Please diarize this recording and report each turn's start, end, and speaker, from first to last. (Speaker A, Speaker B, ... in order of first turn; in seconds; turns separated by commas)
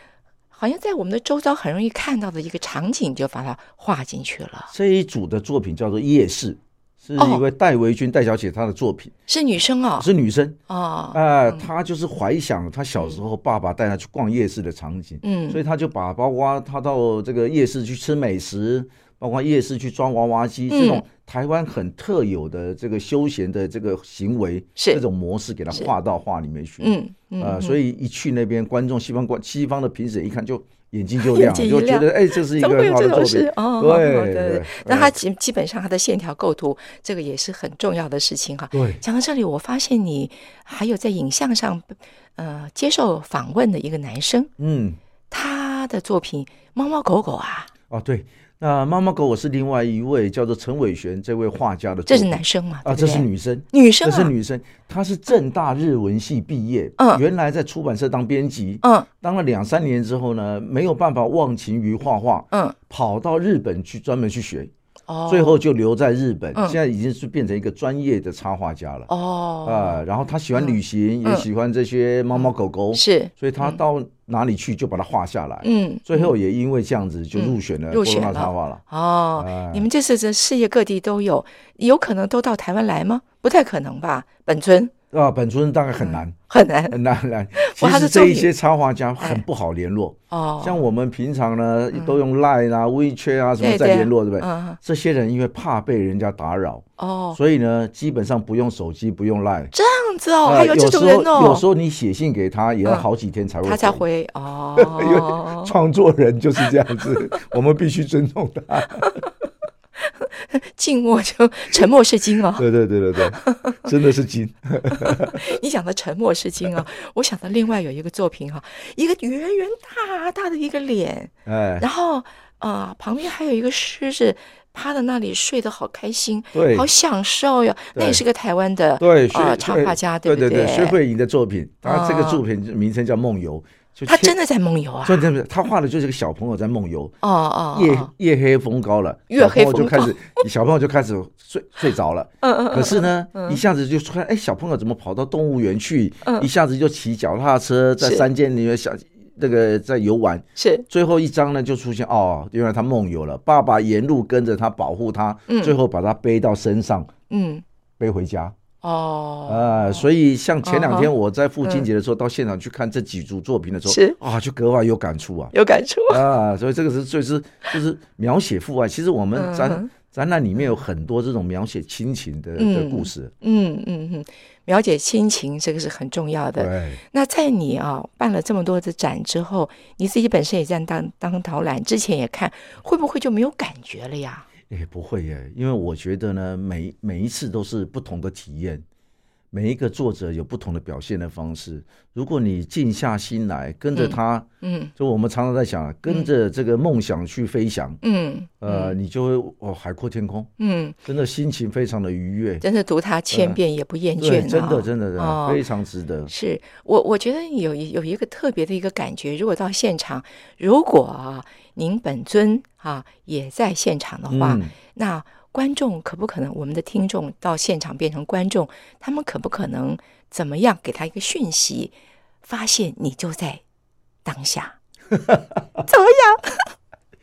Speaker A: 0.5-4.7, Speaker B: 4.7-9.1, Speaker A: 9.3-10.1, Speaker B: 10.0-10.6, Speaker A: 10.7-11.7, Speaker B: 11.1-35.2, Speaker A: 15.2-15.6, Speaker A: 20.7-21.0, Speaker A: 24.8-25.0, Speaker A: 26.8-27.8, Speaker A: 31.2-44.5, Speaker B: 38.7-39.0, Speaker B: 44.6-45.0, Speaker A: 45.3-47.7, Speaker B: 47.9-64.7, Speaker A: 52.1-54.3, Speaker A: 58.8-59.1, Speaker A: 62.5-62.8, Speaker A: 65.1-65.6, Speaker B: 65.3-69.1, Speaker A: 69.1-70.0, Speaker B: 69.6-78.8, Speaker A: 70.5-71.5, Speaker A: 72.3-73.8, Speaker A: 75.6-76.3, Speaker A: 77.3-84.9, Speaker B: 79.4-79.9, Speaker B: 85.1-86.3, Speaker A: 86.0-87.0, Speaker B: 86.9-99.7, Speaker A: 87.6-88.5, Speaker A: 90.3-90.8, Speaker A: 91.9-92.2, Speaker A: 93.6-94.8, Speaker A: 97.0-97.4, Speaker A: 99.7-101.6, Speaker B: 100.4-104.0, Speaker A: 103.6-105.7, Speaker B: 104.8-109.2, Speaker A: 109.0-109.3, Speaker A: 110.0-112.7, Speaker B: 112.6-115.5, Speaker A: 113.2-113.9, Speaker A: 114.9-131.0, Speaker B: 121.5-121.9, Speaker B: 126.5-126.9, Speaker B: 127.9-128.2, Speaker B: 129.0-134.3, Speaker A: 131.8-132.4, Speaker A: 134.1-135.3, Speaker B: 135.0-137.1, Speaker A: 137.2-138.1, Speaker B: 137.7-157.1, Speaker A: 139.3-140.4, Speaker A: 142.4-143.6, Speaker A: 148.0-148.2, Speaker A: 150.6-150.8, Speaker A: 155.5-155.7, Speaker A: 157.3-157.6, Speaker B: 158.0-158.5, Speaker A: 158.8-160.1, Speaker B: 159.5-165.5, Speaker A: 160.6-161.1, Speaker A: 163.9-164.2, Speaker A: 165.5-166.2, Speaker B: 166.1-173.3, Speaker A: 169.3-169.9, Speaker A: 172.6-184.5, Speaker B: 176.6-177.0, Speaker B: 184.7-188.8, Speaker B: 189.5-198.0, Speaker A: 193.9-194.9, Speaker A: 198.0-199.0, Speaker B: 198.6-200.5, Speaker A: 200.6-201.0, Speaker B: 201.0-202.6, Speaker A: 202.6-205.6, Speaker B: 203.3-203.6, Speaker B: 204.2-206.3, Speaker A: 206.3-223.6, Speaker B: 214.3-214.7, Speaker A: 224.2-224.8, Speaker A: 225.8-226.7